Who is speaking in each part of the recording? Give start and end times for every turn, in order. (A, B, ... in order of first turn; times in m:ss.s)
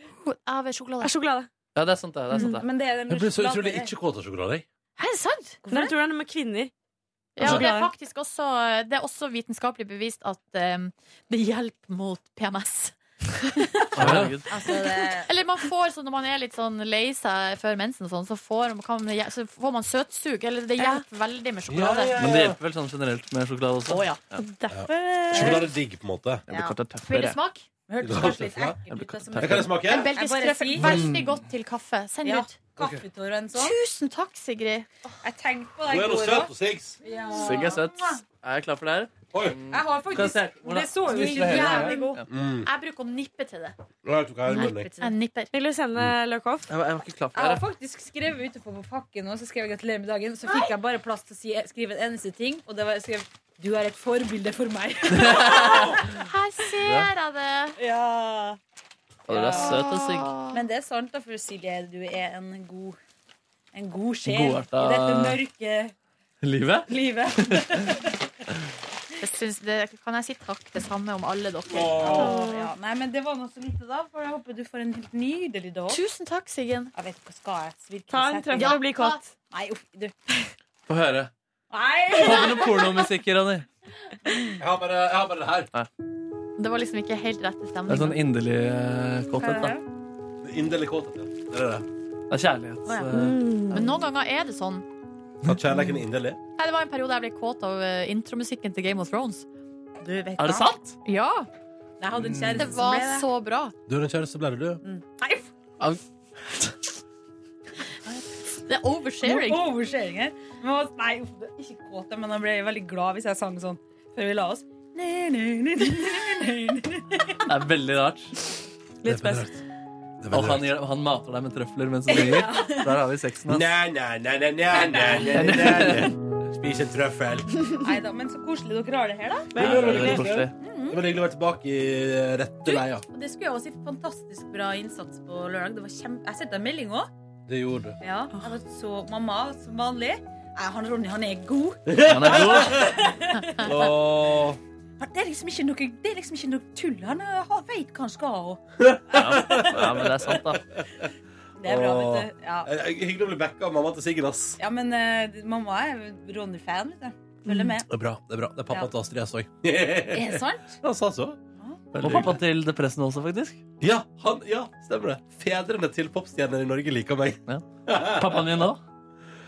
0:00.2-0:01.1 A
0:01.0-0:01.5 B
0:01.7-0:02.6 C
0:02.4-0:03.9 D
0:03.1-0:04.6 E
0:05.0-0:05.6 A
0:05.6-0:05.9 D
0:05.7-0:06.7 B
0:07.4-0:13.0 A
0:07.4-0:07.9 B
0:13.5-0:13.9 A
0:14.0-0:14.5 C
0:14.0-0:14.4 E
0:14.5-0:15.3 D
0:14.6-0:22.2 A
0:21.7-0:22.6 E
0:22.2-0:24.4 C
0:23.9-0:25.7 A
0:24.7-0:26.4 E
0:26.5-0:26.8 D
0:26.5-0:27.4 C
0:27.0-0:27.6 A
0:27.9-0:31.0 D
0:28.0-0:28.8 E
0:28.9-0:29.7 C
0:29.4-0:30.1 E
0:29.9-0:32.5 A
0:30.8-0:31.2 C
0:30.8-0:31.1 E
0:32.2-0:33.8 D
0:33.5-0:34.9 A
0:35.2-0:38.2 D
0:35.9-0:37.0 E
0:37.4-0:42.2 C
0:39.3-0:39.6 E
0:39.7-0:42.1 D
0:41.0-0:43.7 A
0:42.3-0:42.7 E
0:44.0-0:44.9 E
0:44.5-0:45.1 D
0:44.5-0:45.5 A
0:45.5-0:46.7 B
0:46.7-0:47.6 C
0:47.3-0:56.0 D
0:55.1-0:56.0 C
0:55.3-0:57.8 A
0:56.8-0:57.1 C
0:57.8-0:58.6 D
0:59.3-0:59.9 D
0:59.3-1:00.4 C
0:59.6-1:00.5 A
1:00.5-1:03.0 D
1:03.7-1:05.9 D
1:04.2-1:05.4 C
1:06.4-1:07.9 C
1:06.9-1:08.1 D
1:09.2-1:12.4 A
1:11.7-1:12.3 E
1:11.8-1:16.0 D
1:12.2-1:12.7 B
1:15.9-1:16.9 A
1:16.9-1:18.9 D
1:18.1-1:19.3 B
1:18.6-1:19.2 A
1:19.4-1:20.3 D
1:20.9-1:21.3 C
1:21.7-1:23.1 D
1:22.1-1:23.6 C
1:24.3-1:24.5 D
1:24.6-1:25.7 E
1:26.6-1:28.2 A
1:27.9-1:29.8 C
1:29.4-1:29.8 D
1:30.4-1:31.8 E
1:32.3-1:33.4 C
1:32.8-1:33.2 D
1:33.2-1:33.8 B
1:33.7-1:34.8 A
1:35.4-1:36.4 E
1:36.6-1:39.4 A
1:40.0-1:40.8 D
1:40.4-1:41.0 C
1:41.0-1:41.5 A
1:42.0-1:43.3 D
1:42.3-1:42.6 C
1:42.5-1:43.7 A
1:43.9-1:44.8 E
1:44.8-1:45.5 D
1:45.8-1:46.7 C
1:48.6-1:49.7 A
1:49.2-1:57.5 D
1:57.5-1:58.3 C
1:59.0-1:59.5 B
1:59.0-1:59.5 E
2:00.2-2:00.7 E
2:00.3-2:03.7 C
2:02.1-2:03.0 D
2:03.5-2:07.5 E
2:04.7-2:05.9 D
2:05.3-2:06.1 C
2:07.8-2:09.6 D
2:09.5-2:10.2 B
2:09.6-2:10.5 C
2:09.6-2:13.0 E
2:10.6-2:11.0 D
2:12.6-2:17.1 D
2:17.5-2:18.0 E
2:18.0-2:23.9 D
2:21.9-2:23.0 E
2:22.0-2:22.8 C
2:23.6-2:24.6 E
2:25.0-2:28.6 D
2:28.8-2:31.1 E
2:29.1-2:30.6 C
2:29.4-2:29.6 D
2:31.6-2:32.7 D
2:31.7-2:34.6 E
2:34.6-2:37.9 D
2:37.9-2:41.4 E
2:40.1-2:40.8 D
2:41.6-2:42.2 D
2:41.9-2:42.4 E
2:42.0-2:43.6 C
2:43.8-2:48.7 E
2:47.5-2:48.8 C